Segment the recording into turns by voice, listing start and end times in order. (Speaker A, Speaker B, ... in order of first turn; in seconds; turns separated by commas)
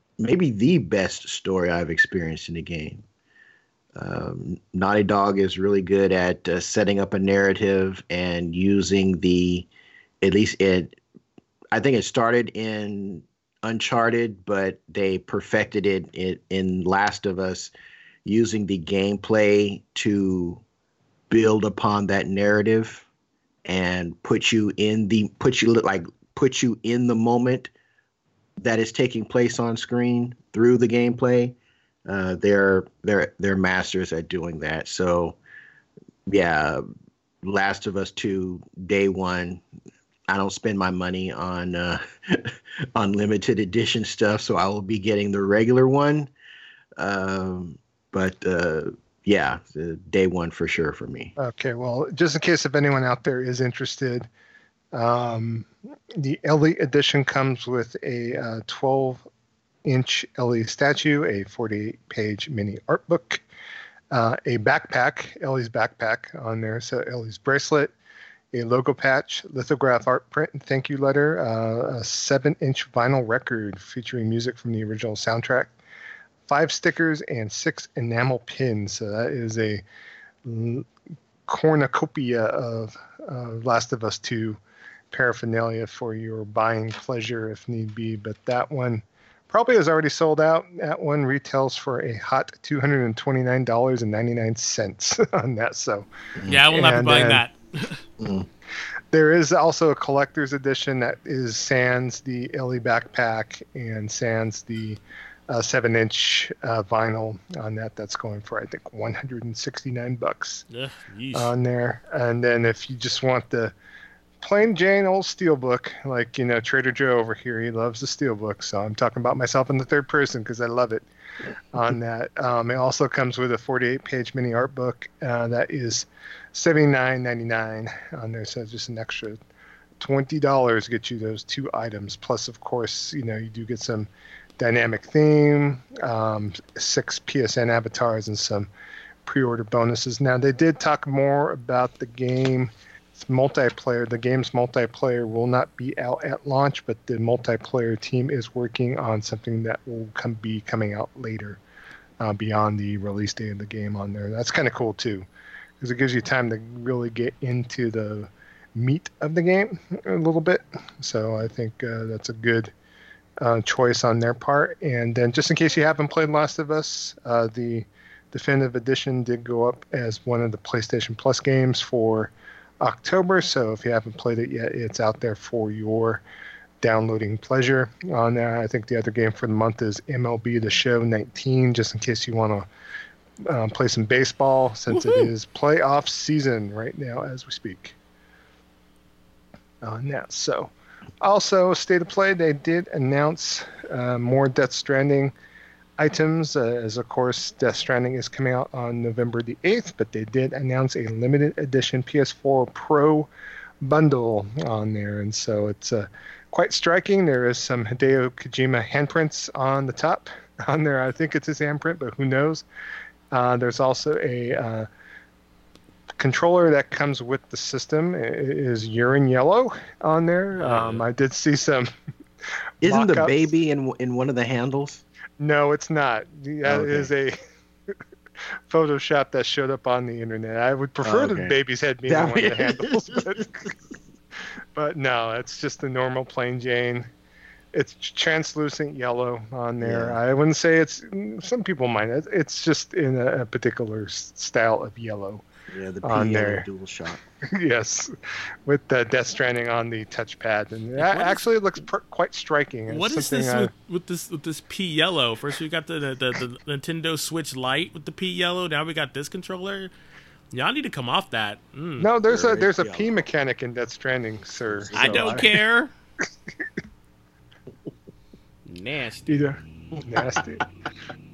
Speaker A: 0.2-3.0, Speaker A: 4.0-9.7, Speaker A: 10.2-11.0, Speaker A: 11.7-17.7, Speaker A: 18.2-20.6, Speaker A: 21.3-23.1, Speaker A: 23.7-27.7, Speaker A: 28.6-31.6, Speaker A: 32.1-35.4, Speaker A: 36.3-36.8, Speaker A: 37.4-39.6, Speaker A: 40.3-46.3, Speaker A: 47.0-51.3, Speaker B: 51.4-54.3, Speaker B: 54.9-59.2, Speaker B: 59.9-63.4, Speaker B: 64.1-67.9, Speaker B: 68.5-75.7, Speaker B: 76.5-79.8, Speaker B: 80.4-80.9, Speaker B: 81.5-84.6, Speaker B: 85.1-96.1, Speaker A: 96.4-96.6, Speaker C: 96.5-98.0, Speaker B: 96.7-97.4, Speaker A: 98.2-98.5, Speaker B: 99.1-110.7, Speaker C: 110.7-111.5, Speaker B: 111.3-113.7, Speaker B: 114.4-121.0, Speaker B: 121.7-129.4, Speaker B: 130.0-138.7, Speaker B: 139.3-151.6, Speaker B: 152.2-155.3, Speaker B: 155.8-162.7, Speaker B: 163.4-176.2, Speaker B: 176.8-182.7, Speaker B: 183.5-188.0, Speaker C: 184.9-185.3, Speaker B: 189.8-195.3, Speaker B: 196.0-203.3, Speaker B: 203.8-212.7, Speaker B: 213.3-214.9, Speaker B: 216.2-221.9, Speaker C: 220.6-221.0, Speaker B: 222.8-223.5, Speaker A: 222.8-225.0, Speaker B: 225.4-227.4, Speaker A: 226.6-227.1, Speaker B: 228.7-233.7, Speaker A: 231.0-231.6, Speaker A: 232.1-233.7, Speaker B: 234.8-237.1, Speaker B: 237.7-245.5, Speaker A: 239.8-240.2, Speaker A: 245.7-247.2, Speaker B: 246.0-246.7, Speaker B: 247.4-248.1, Speaker B: 248.7-253.7, Speaker C: 251.0-251.4, Speaker C: 252.9-259.9, Speaker C: 260.5-262.1, Speaker B: 262.0-265.5, Speaker A: 262.3-263.2, Speaker A: 264.7-265.6, Speaker C: 265.0-265.9, Speaker C: 268.7-269.5, Speaker B: 269.3-270.6, Speaker A: 270.3-270.6